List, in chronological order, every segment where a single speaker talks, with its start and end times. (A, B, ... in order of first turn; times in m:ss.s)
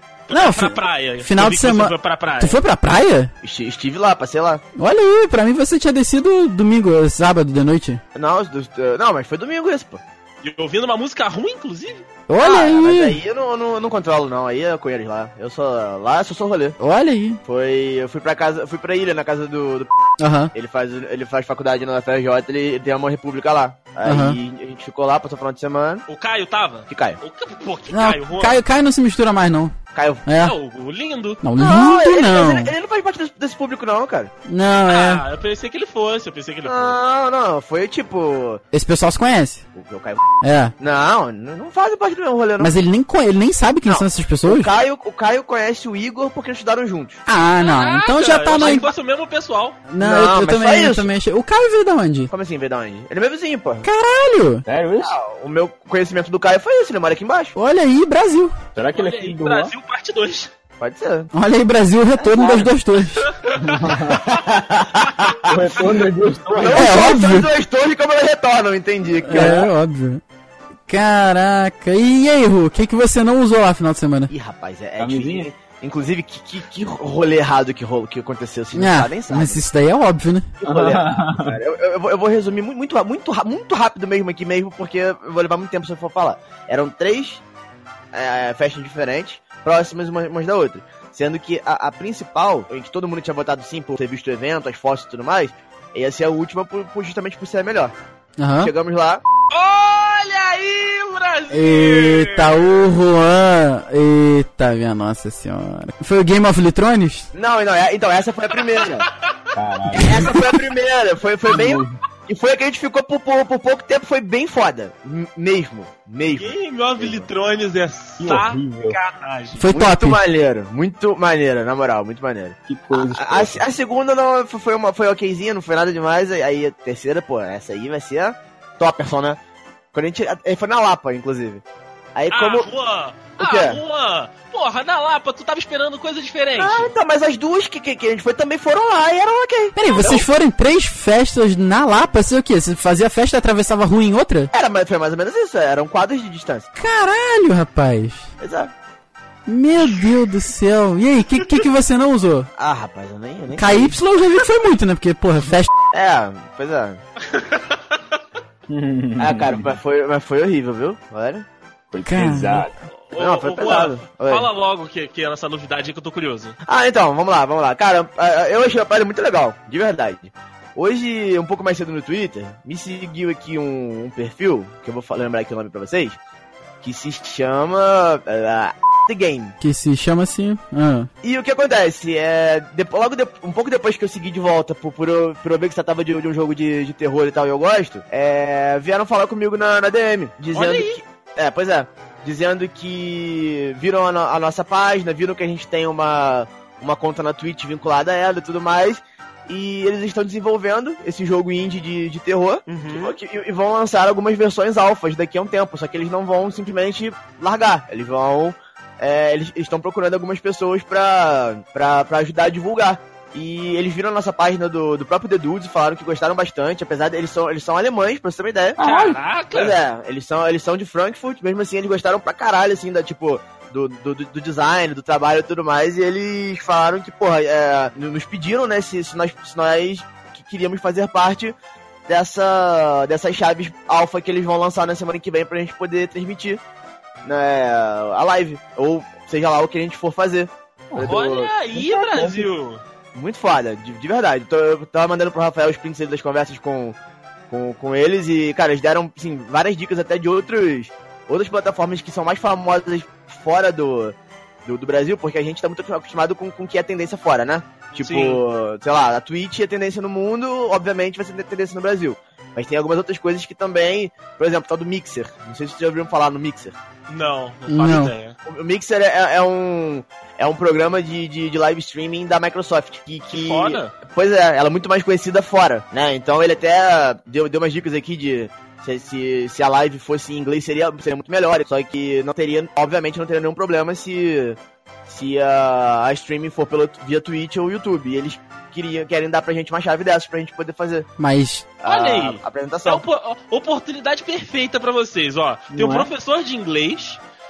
0:00.3-0:02.6 A
0:00.3-0:03.3 B
0:03.4-0:04.6 C
0:04.8-0:08.0 B
0:08.1-0:10.0 C
0:10.4-0:12.0 A
0:12.3-0:13.2 B
0:12.4-0:16.8 C
0:16.8-0:17.4 B
0:17.4-0:19.9 C
0:20.2-0:20.5 B
0:20.5-0:26.0 C
0:24.0-0:24.4 B
0:26.1-0:28.6 A
0:26.9-0:27.2 C
0:27.9-0:29.7 B
0:29.9-0:30.2 C
0:30.2-0:30.5 B
0:30.4-0:31.4 A
0:31.4-0:32.7 B
0:31.6-0:34.3 C
0:34.5-0:35.2 B
0:34.9-0:37.0 A
0:36.6-0:38.6 C
0:38.7-0:39.6 B
0:39.8-0:40.2 C
0:40.4-0:40.7 B
0:40.8-0:42.7 C
0:42.6-0:44.7 B
0:43.8-0:47.2 C
0:47.3-0:48.9 B
0:47.6-0:49.8 A
0:49.9-0:52.3 B
0:50.0-0:51.1 C
0:52.3-0:53.8 C
0:53.8-0:54.6 B
0:54.6-0:55.1 D
0:55.0-0:57.5 C
0:57.6-0:58.5 B
0:58.7-0:59.7 D
0:58.9-1:00.5 A
1:00.8-1:01.3 C
1:01.3-1:03.2 B
1:02.3-1:02.7 D
1:03.2-1:04.4 A
1:03.6-1:04.3 D
1:04.1-1:06.0 C
1:05.4-1:07.1 D
1:06.5-1:09.7 C
1:06.7-1:07.5 B
1:09.3-1:10.2 B
1:10.9-1:14.3 B
1:14.3-1:19.6 C
1:15.0-1:15.5 D
1:18.7-1:20.5 B
1:20.6-1:27.4 C
1:20.6-1:21.6 D
1:28.1-1:37.9 C
1:38.4-1:38.7 B
1:38.6-1:39.2 C
1:39.5-1:42.8 A
1:41.5-1:47.3 B
1:47.3-1:49.1 C
1:48.6-1:49.4 A
1:49.5-1:50.4 D
1:49.9-1:57.3 C
1:51.5-1:52.0 D
1:56.4-1:59.6 A
1:58.2-1:59.0 D
1:59.6-2:00.2 B
1:59.7-2:09.4 C
2:02.7-2:03.6 D
2:09.9-2:11.6 C
2:12.1-2:12.7 C
2:12.3-2:16.9 A
2:13.4-2:13.8 C
2:16.6-2:20.2 C
2:19.8-2:24.5 B
2:24.5-2:26.7 C
2:26.8-2:28.3 B
2:28.4-2:28.7 C
2:29.5-2:32.5 B
2:29.8-2:30.1 A
2:32.6-2:34.0 C
2:33.6-2:35.7 B
2:35.9-2:37.0 C
2:37.2-2:38.2 A
2:38.7-2:39.7 D
2:39.2-2:41.4 C
2:41.9-2:42.7 D
2:42.0-2:42.7 B
2:43.1-2:46.5 A
2:43.1-2:44.5 C
2:46.6-2:56.2 C
2:56.8-2:59.5 C
2:59.6-3:01.1 B
3:01.2-3:38.8 C
3:10.5-3:11.0 A
3:22.7-3:23.2 A
3:38.8-3:39.2 D
3:38.8-3:39.8 A
3:39.5-3:51.5 C
3:52.1-3:56.6 C
3:57.2-4:01.5 C
4:00.9-4:01.2 D
4:01.0-4:02.8 A
4:01.7-4:02.4 D
4:03.1-4:07.0 C
4:07.5-4:14.1 C
4:14.6-4:26.8 C
4:18.0-4:18.4 A
4:27.1-4:28.4 A
4:27.7-4:28.1 B
4:28.4-4:51.1 C
4:33.3-4:33.9 A
4:51.2-4:51.7 B
4:51.8-4:53.0 C
4:51.8-4:57.2 A
4:55.7-4:56.1 D